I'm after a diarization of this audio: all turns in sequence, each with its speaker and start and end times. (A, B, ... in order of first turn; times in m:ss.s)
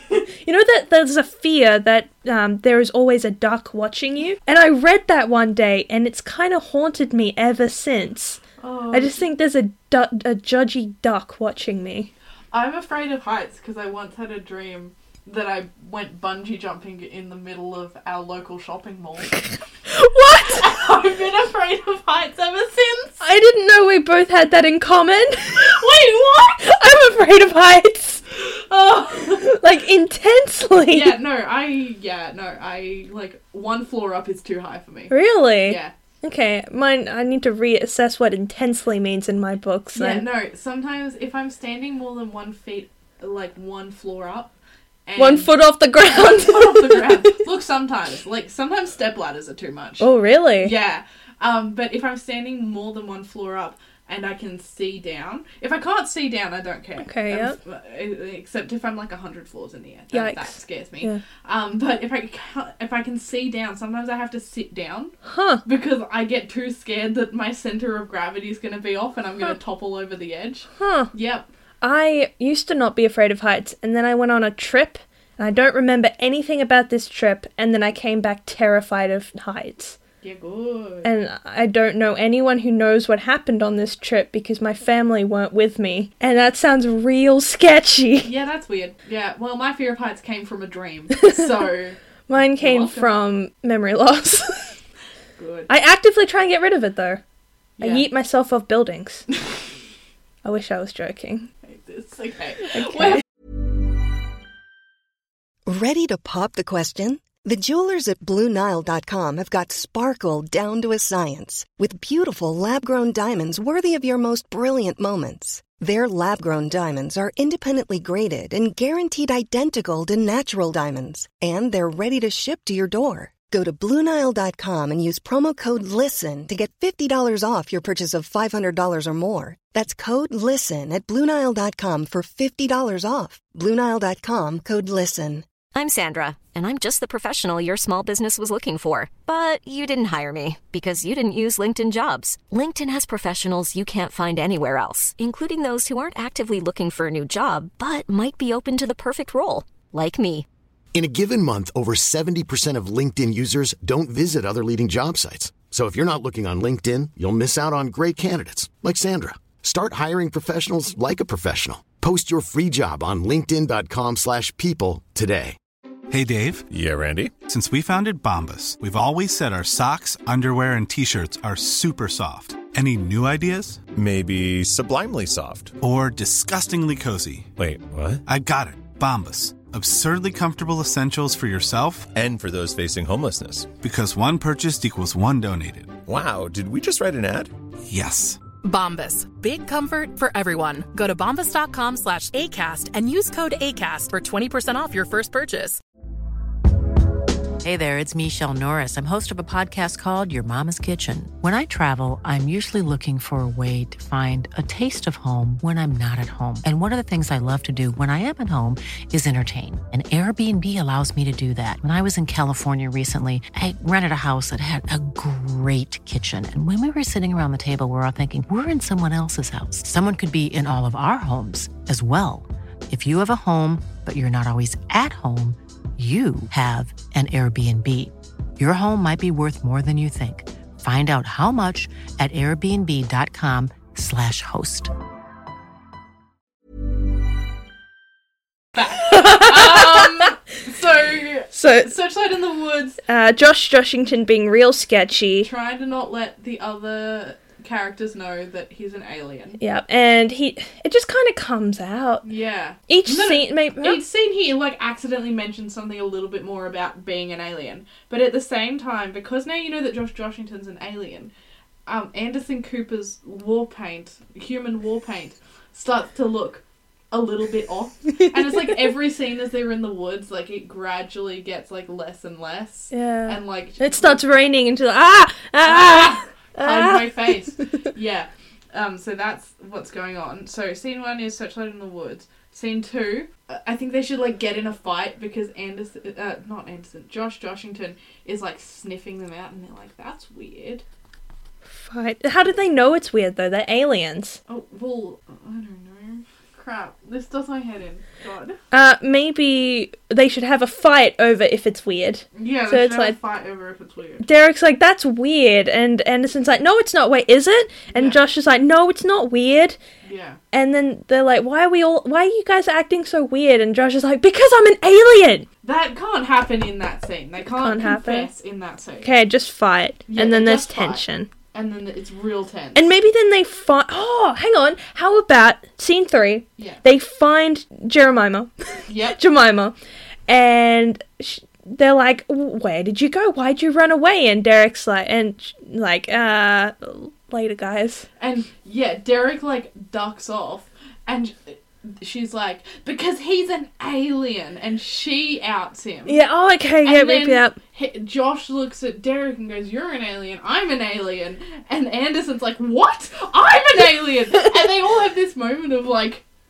0:00.3-0:08.4 A
0:08.6-0:09.3 B
0:08.9-0:12.1 A
0:12.5-0:19.4 B
0:19.9-0:20.6 A
0:20.4-0:23.2 B
0:23.2-0:25.7 A
0:25.6-0:26.6 B
0:26.6-0:28.2 A
0:28.4-0:29.6 B
0:29.4-0:31.2 A
0:30.9-0:35.9 B
0:35.1-0:40.2 A
0:39.9-0:44.5 B
0:45.1-0:45.5 B
0:45.2-0:47.3 A
0:46.0-1:05.1 B
0:50.0-0:50.7 A
0:57.0-0:57.6 A
1:00.1-1:01.2 A
1:05.2-1:05.6 A
1:05.6-1:11.5 B
1:10.8-1:11.1 A
1:11.8-1:20.0 A
1:20.2-1:21.1 B
1:21.0-1:28.3 A
1:28.2-1:33.1 B
1:31.2-1:31.5 A
1:32.3-1:34.8 A
1:35.4-1:35.7 B
1:35.7-1:37.2 A
1:37.8-1:38.1 B
1:37.8-1:39.2 A
1:40.4-1:41.5 A
1:41.6-1:43.2 B
1:42.7-1:43.2 A
1:45.6-2:15.4 C
2:15.7-2:30.5 D
2:30.9-2:45.6 E
2:46.1-2:46.7 F
2:46.7-2:47.3 G
2:47.4-2:53.8 F
2:53.9-2:55.8 G
2:55.8-2:57.5 F
2:57.6-2:58.2 G
2:58.2-3:02.1 F
3:02.1-3:03.7 G
3:03.8-3:06.0 F
3:06.1-3:07.5 G
3:07.9-3:08.4 F
3:08.6-3:15.8 H
3:17.6-3:54.9 I
3:58.7-4:03.0 B
3:59.1-4:00.1 A
4:01.5-4:01.9 A
4:03.1-4:05.5 A
4:05.4-4:09.6 B
4:09.6-4:12.2 A
4:12.2-4:21.3 B
4:12.9-4:14.0 A
4:21.8-4:34.2 B
4:32.9-4:37.2 A
4:35.6-4:50.8 B
4:51.8-4:54.4 A
4:54.5-4:58.6 B
4:58.7-5:03.2 A
5:02.3-5:04.2 B
5:04.2-5:09.8 A
5:07.9-5:08.2 B
5:10.0-5:10.4 B
5:10.5-5:15.5 A
5:15.6-5:19.1 B
5:17.4-5:18.3 A
5:19.0-5:21.3 A
5:20.1-5:22.9 B
5:22.7-5:29.8 A
5:28.9-5:29.2 B
5:30.3-5:38.1 A
5:38.2-5:46.2 B
5:46.1-5:47.6 A
5:46.8-5:56.2 B